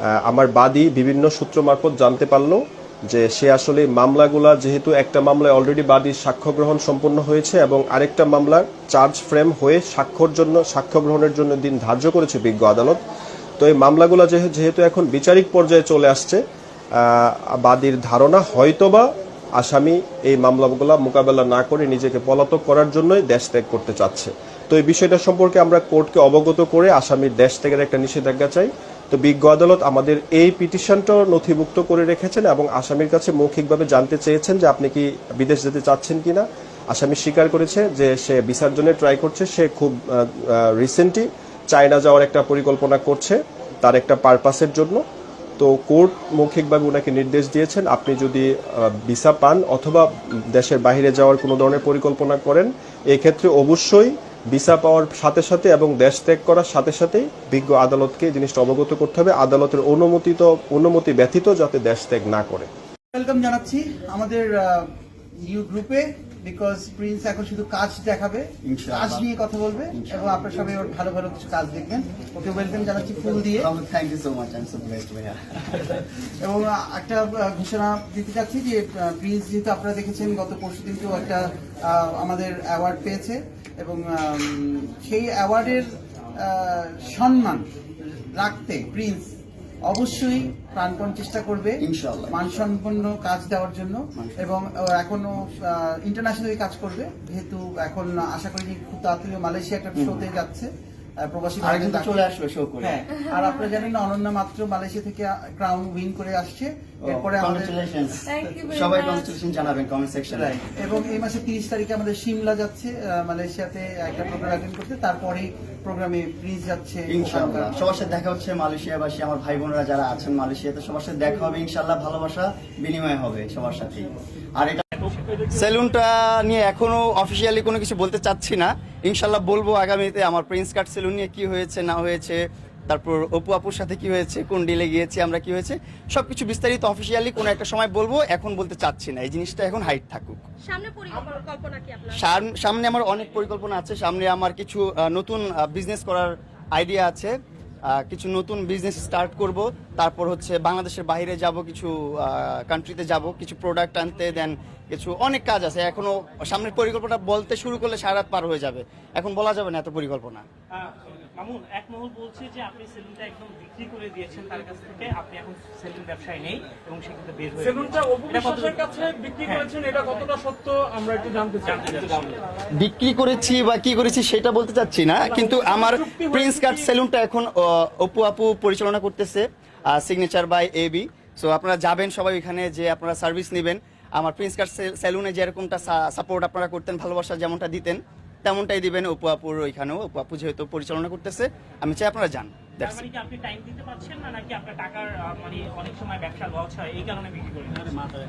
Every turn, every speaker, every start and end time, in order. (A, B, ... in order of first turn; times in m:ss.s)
0:00.1-0:13.0 A
0:13.6-0:16.4 A
0:17.0-0:45.0 A
0:45.6-1:02.7 A
1:03.1-1:04.9 B
1:05.5-1:13.7 B
1:08.6-1:09.3 C
1:09.9-1:10.4 C
1:13.6-1:15.9 C
1:16.4-1:25.9 B
1:26.4-1:27.6 B
1:28.4-1:29.2 B
1:29.9-1:40.7 B
1:31.8-1:32.4 C
1:34.2-1:34.5 C
1:40.0-1:40.2 C
1:41.2-1:42.3 B
1:41.6-1:43.0 C
1:42.8-1:47.8 B
1:47.0-1:50.6 C
1:48.6-1:49.3 D
1:50.3-1:57.8 B
1:57.1-2:04.8 C
2:05.0-2:05.7 D
2:05.5-2:12.4 C
2:12.9-2:20.4 C
2:20.7-2:22.2 D
2:22.1-2:27.3 C
2:27.9-2:40.4 C
2:40.7-2:50.0 D
2:47.8-2:51.7 E
2:51.3-2:52.4 D
2:52.8-3:13.1 C
2:55.3-2:56.8 E
3:12.8-3:18.0 D